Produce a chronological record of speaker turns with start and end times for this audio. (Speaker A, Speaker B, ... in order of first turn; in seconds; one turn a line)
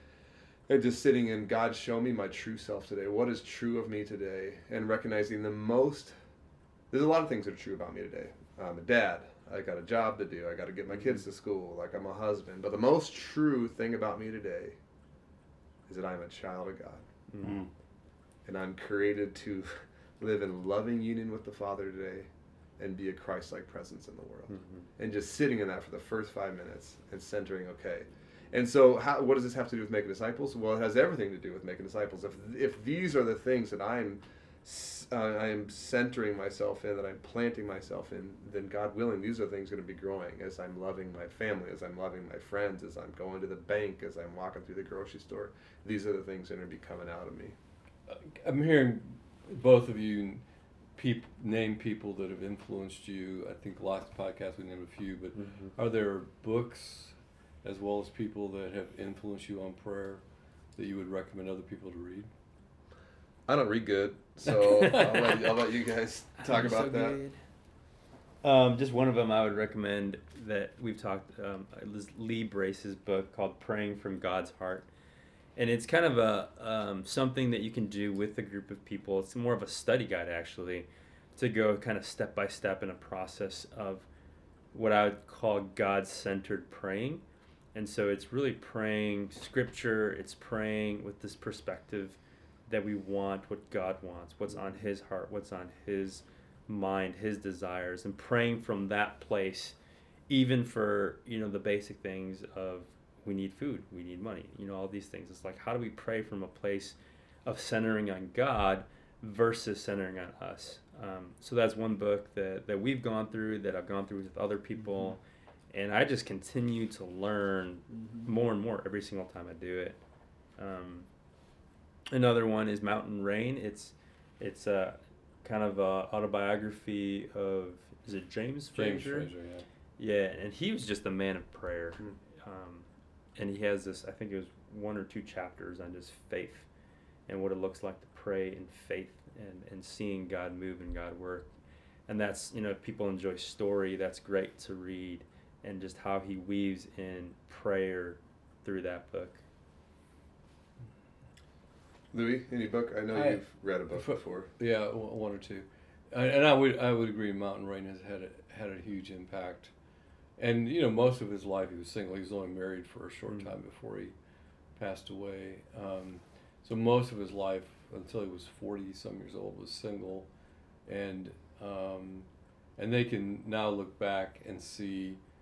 Speaker A: 0.7-6.1
Speaker A: 6.9-14.8
Speaker A: 15.9-17.1
Speaker B: 17.3-17.6
Speaker C: 17.4-17.7
Speaker A: 18.4-47.6
Speaker B: 24.5-24.9
Speaker C: 48.1-50.4
Speaker C: 51.0-60.2
Speaker B: 55.4-55.7
Speaker C: 60.8-62.3
Speaker A: 63.5-67.2
Speaker B: 64.6-65.4
Speaker C: 64.8-65.2
Speaker B: 66.4-67.4
Speaker B: 68.4-74.9
Speaker B: 75.6-84.1
Speaker B: 84.7-87.2
Speaker B: 87.7-99.8
Speaker B: 100.3-115.2
Speaker B: 115.7-120.0
Speaker B: 120.6-121.1
Speaker B: 122.1-129.3
Speaker C: 128.7-129.7
Speaker B: 130.0-136.7
Speaker B: 137.3-141.5
Speaker B: 142.1-149.4
Speaker A: 152.1-154.5
Speaker C: 153.1-159.7
Speaker C: 160.4-164.1
Speaker C: 164.8-170.3
Speaker C: 170.9-175.2